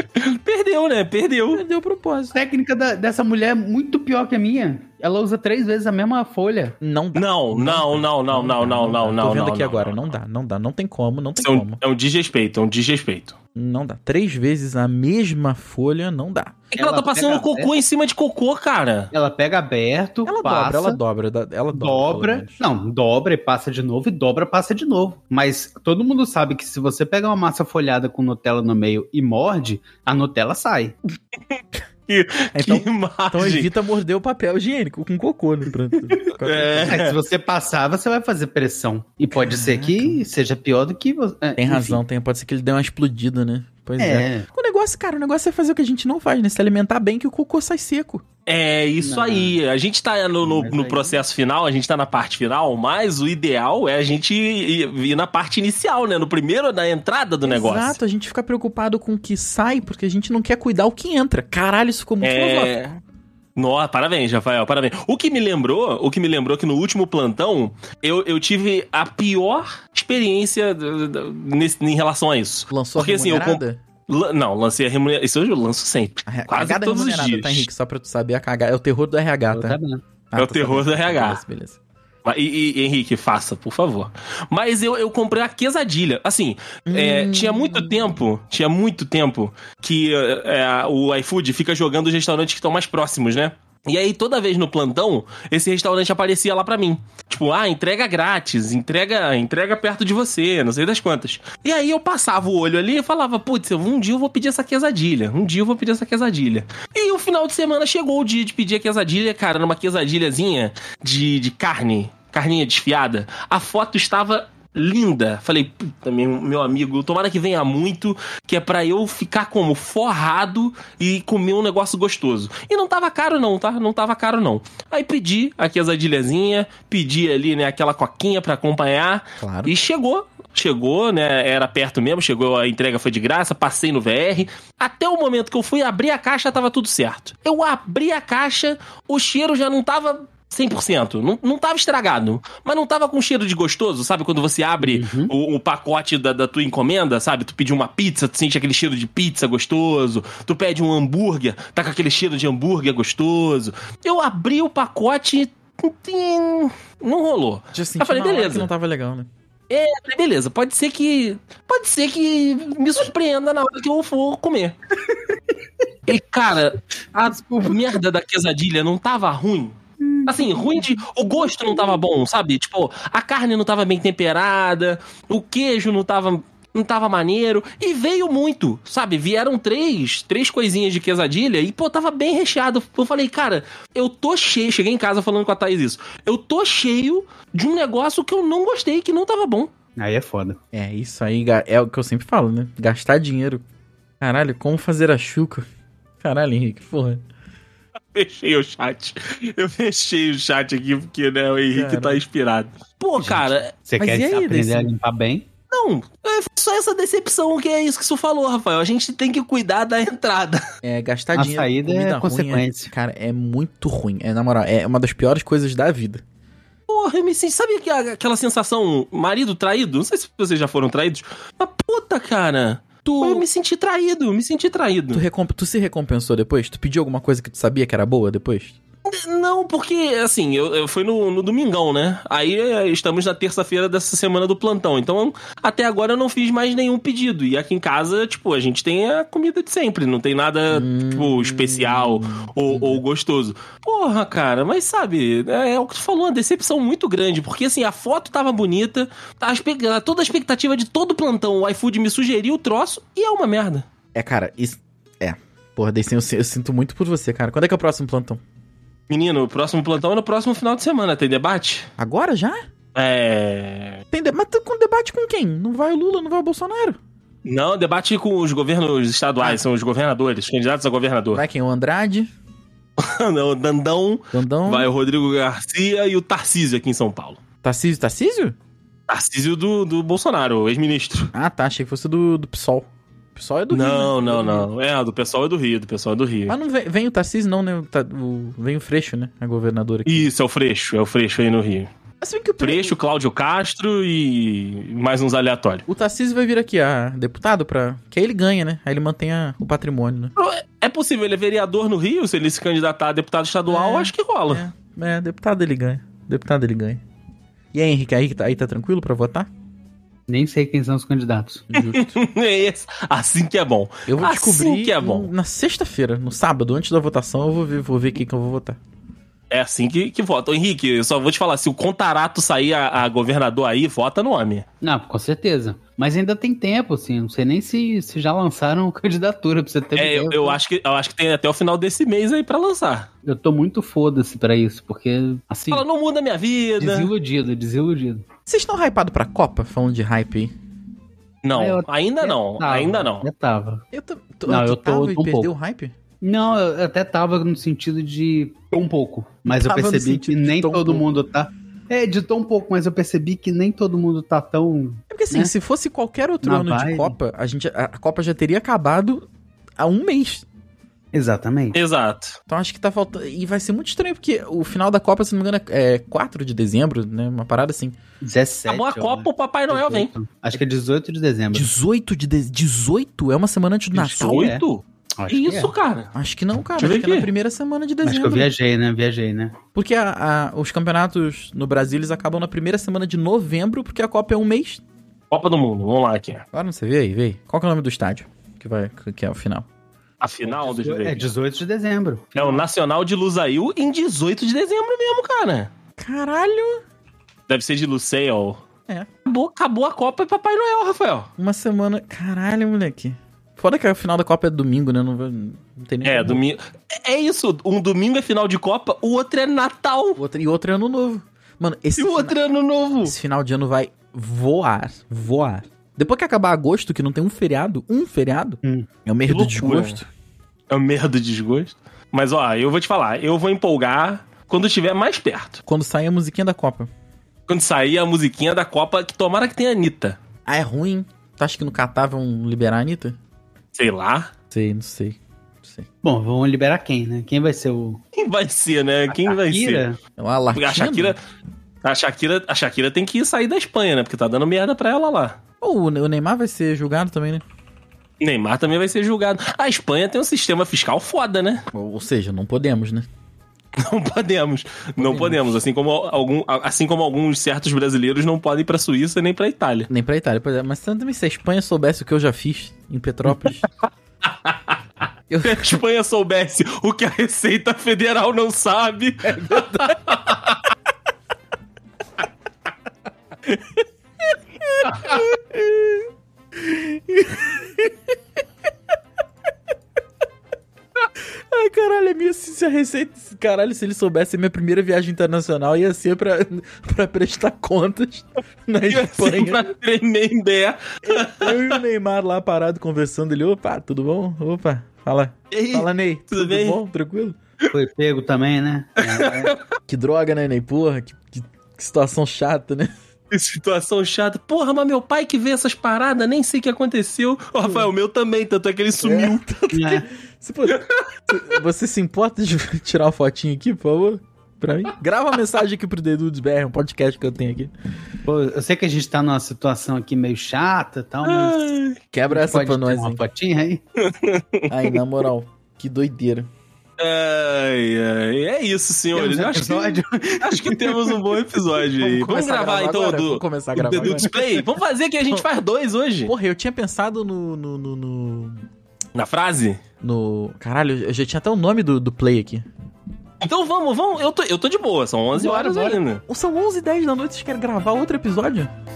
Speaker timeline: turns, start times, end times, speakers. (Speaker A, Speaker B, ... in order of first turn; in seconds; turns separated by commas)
Speaker A: 0.1-1.6, Speaker B: 1.5-2.4, Speaker C: 2.3-6.8, Speaker B: 6.8-11.8, Speaker A: 7.1-10.1, Speaker A: 11.4-13.3, Speaker B: 13.6-16.6, Speaker A: 16.7-19.1, Speaker C: 16.8-17.7, Speaker C: 19.1-21.0, Speaker B: 20.2-22.6, Speaker C: 21.7-30.9, Speaker A: 31.5-33.7, Speaker B: 32.5-37.0, Speaker A: 36.4-37.2, Speaker C: 36.9-42.0, Speaker B: 39.3-40.2, Speaker B: 41.6-48.2, Speaker C: 44.0-44.5, Speaker A: 48.5-58.0, Speaker C: 49.0-49.5, Speaker B: 50.5-51.1, Speaker C: 50.6-51.0, Speaker B: 57.4-62.7, Speaker A: 62.2-63.0, Speaker A: 63.5-77.7, Speaker B: 72.7-73.8, Speaker B: 76.2-79.8, Speaker C: 79.5-80.0, Speaker B: 80.3-81.8, Speaker A: 80.3-81.4, Speaker A: 82.2-158.7, Speaker B: 86.9-88.1, Speaker B: 129.4-129.7, Speaker C: 144.8-145.3, Speaker B: 157.7-159.3, Speaker A: 159.7-164.8, Speaker A: 166.1-189.7, Speaker C: 167.5-167.8, Speaker C: 170.0-170.8, Speaker C: 190.0-190.6, Speaker B: 190.7-193.6, Speaker B: 194.2-195.7, Speaker B: 196.2-197.2, Speaker A: 198.1-203.7, Speaker B: 201.7-202.2, Speaker C: 203.2-205.5, Speaker B: 204.0-204.9, Speaker A: 205.7-210.6, Speaker B: 210.8-216.2, Speaker C: 211.3-212.9, Speaker A: 216.9-225.2, Speaker B: 223.0-223.4, Speaker B: 225.1-228.8, Speaker A: 229.1-253.8, Speaker B: 240.7-243.0, Speaker B: 254.1-258.4, Speaker A: 259.1-261.9, Speaker B: 262.0-262.6, Speaker A: 262.9-264.0, Speaker B: 264.1-267.0, Speaker A: 267.4-271.4, Speaker B: 271.3-272.3, Speaker A: 273.0-277.4, Speaker B: 274.3-274.9, Speaker B: 277.6-278.6, Speaker A: 279.1-281.3, Speaker B: 281.3-284.7, Speaker A: 283.7-286.5, Speaker B: 286.5-290.3, Speaker A: 290.1-291.9, Speaker B: 292.2-293.0, Speaker A: 292.6-295.9, Speaker B: 295.9-300.3, Speaker A: 300.4-304.6, Speaker B: 303.7-307.0, Speaker B: 307.7-309.5, Speaker C: 310.3-311.7, Speaker B: 311.7-312.2, Speaker A: 311.7-315.3, Speaker B: 314.1-318.8, Speaker A: 319.5-324.6, Speaker C: 324.8-330.6, Speaker A: 329.9-333.1, Speaker C: 333.2-335.9, Speaker A: 335.7-337.1, Speaker C: 336.8-338.2, Speaker B: 338.4-340.5, Speaker A: 341.4-343.3, Speaker C: 341.5-343.8, Speaker B: 343.9-345.9, Speaker C: 344.5-345.5, Speaker C: 346.2-355.5, Speaker B: 349.5-351.1, Speaker B: 355.1-359.2, Speaker C: 356.4-357.1, Speaker B: 359.8-360.4, Speaker C: 361.1-361.8, Speaker A: 361.7-362.4, Speaker B: 362.5-368.0, Speaker C: 368.2-371.7, Speaker A: 368.7-370.1, Speaker B: 371.5-374.6, Speaker A: 373.9-376.1, Speaker C: 374.2-374.6, Speaker C: 375.2-375.7, Speaker B: 376.1-378.5, Speaker A: 376.8-377.3, Speaker C: 378.0-379.6, Speaker B: 379.7-384.8, Speaker A: 385.3-386.4, Speaker B: 386.5-389.7, Speaker A: 390.2-391.3, Speaker C: 390.5-392.6, Speaker A: 392.4-395.7, Speaker B: 396.0-396.8, Speaker A: 397.5-398.6, Speaker A: 399.2-401.3, Speaker B: 401.4-406.4, Speaker A: 406.0-410.2, Speaker B: 410.2-412.4, Speaker A: 412.0-413.1, Speaker B: 413.0-420.1, Speaker A: 419.2-420.0, Speaker A: 420.7-425.6, Speaker B: 425.6-426.9, Speaker A: 427.5-430.2, Speaker B: 430.4-433.2, Speaker A: 433.7-434.3, Speaker B: 434.5-435.9, Speaker C: 436.0-438.0, Speaker A: 438.1-439.8, Speaker C: 439.1-440.0, Speaker B: 440.2-441.1, Speaker A: 440.5-441.2, Speaker A: 441.8-445.4, Speaker B: 445.6-447.4, Speaker A: 448.2-451.6, Speaker B: 451.7-453.1, Speaker A: 453.8-459.9, Speaker B: 455.0-455.6, Speaker B: 459.9-463.6, Speaker A: 464.2-464.8, Speaker B: 465.3-465.8, Speaker A: 465.4-470.6, Speaker B: 469.5-470.0, Speaker B: 474.3-477.9, Speaker B: 481.5-489.6, Speaker A: 488.9-491.8, Speaker B: 491.0-497.4, Speaker A: 495.5-496.8, Speaker C: 497.7-499.5, Speaker A: 499.0-499.6, Speaker B: 499.9-502.9, Speaker A: 503.3-509.4, Speaker B: 509.0-517.7, Speaker C: 509.7-510.0, Speaker A: 510.7-511.0, Speaker C: 518.2-521.7, Speaker A: 521.2-522.0, Speaker B: 522.1-523.2, Speaker C: 522.3-523.8, Speaker A: 524.0-525.0, Speaker B: 524.7-526.5, Speaker A: 527.0-536.3, Speaker C: 529.1-531.2, Speaker B: 532.0-534.3, Speaker B: 536.2-538.6, Speaker A: 539.1-539.8, Speaker B: 540.0-542.6, Speaker A: 543.4-546.2, Speaker C: 545.4-545.9, Speaker B: 545.6-548.7